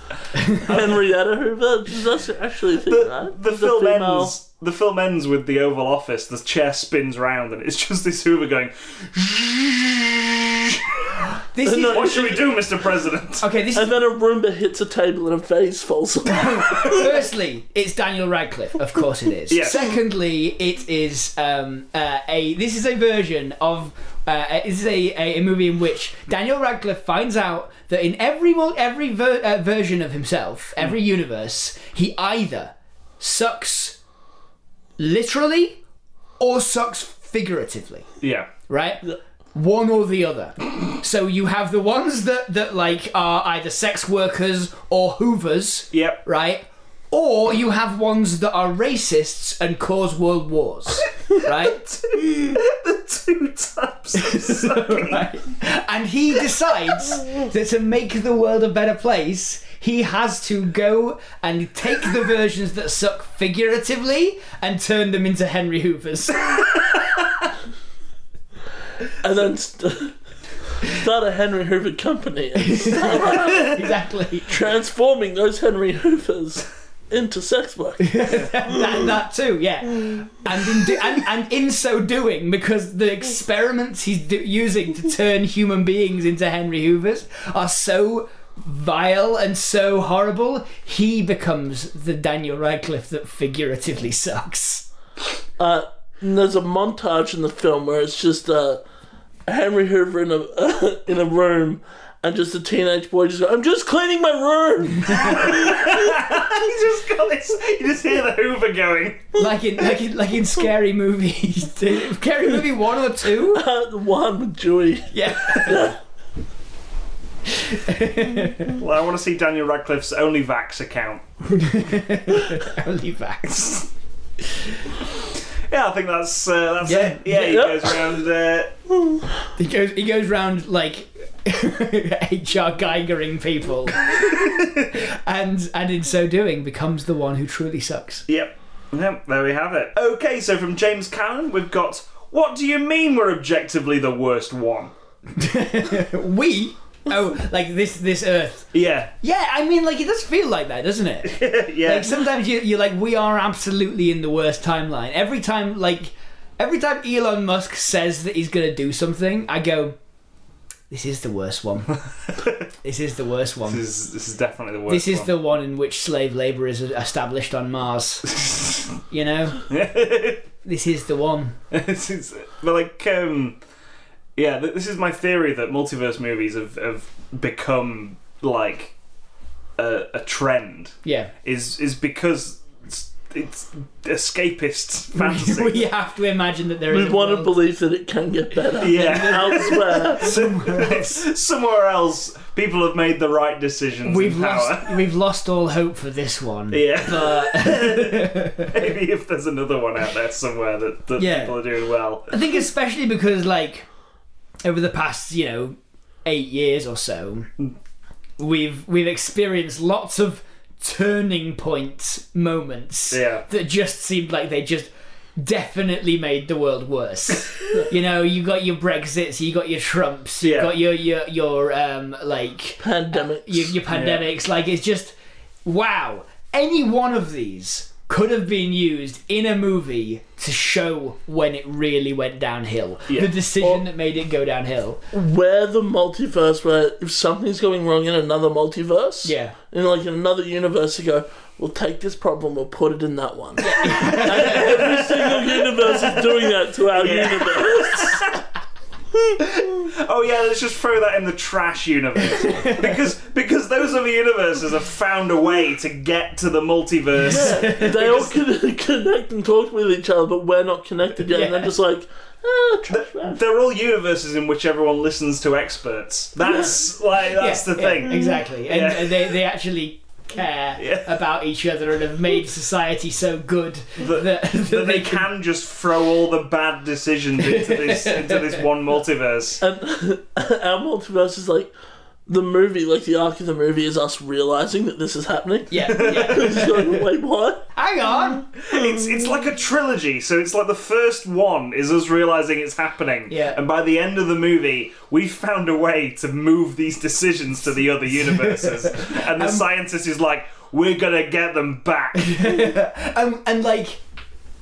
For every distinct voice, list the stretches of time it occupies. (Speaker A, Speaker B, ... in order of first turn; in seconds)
Speaker A: 0.6-4.3, 11.7-12.5, 13.7-17.1, 69.2-70.2, 70.8-73.9, 74.5-78.4, 95.6-98.8, 99.5-105.9, 113.4-116.0, 127.3-128.2, 186.9-190.4, 222.8-223.7, 235.1-248.4, 257.2-263.4, 279.6-281.7, 282.3-287.7
Speaker B: 0.7-0.9, 2.9-11.2, 11.8-13.4, 19.5-20.0, 38.2-38.5, 45.9-46.2, 51.4-55.2, 105.2-109.4, 118.7-121.2, 125.7-128.7, 134.1-134.9, 138.3-144.9, 148.7-149.1, 151.2-152.2, 163.7-165.3, 169.7-170.4, 171.7-173.6, 174.4-178.9, 179.8-185.9, 188.8-195.0, 196.7-202.3, 213.1-213.4, 220.4-220.7, 223.9-224.2, 233.1-233.8, 244.1-248.4, 249.4-258.4, 262.9-269.4, 270.8-271.1, 274.0-279.6, 285.9-286.8, 288.6-302.4
Speaker C: 11.5-12.4, 13.4-13.9, 16.3-34.0, 35.0-35.8, 36.4-38.1, 38.7-39.0, 39.5-51.8, 54.1-66.7, 72.6-74.6, 78.0-94.9, 109.3-113.6, 115.1-116.0, 117.6-118.8, 121.5-123.9, 126.8-127.2, 129.6-138.2, 145.3-148.7, 149.2-160.0, 160.9-162.0, 162.8-163.8, 164.9-168.4, 169.1-169.6, 170.6-171.6, 181.0-181.3, 185.1-187.6, 188.9-191.2, 194.0-198.8, 201.2-201.6, 202.3-203.9, 204.6-207.5, 208.4-235.0, 239.2-239.6, 243.6-244.9, 252.4-252.9, 257.3-258.0, 261.3-261.7, 267.4-275.3, 277.4-278.6, 285.7-286.9, 287.8-288.5, 293.3-293.6, 298.4-299.6, 302.1-304.0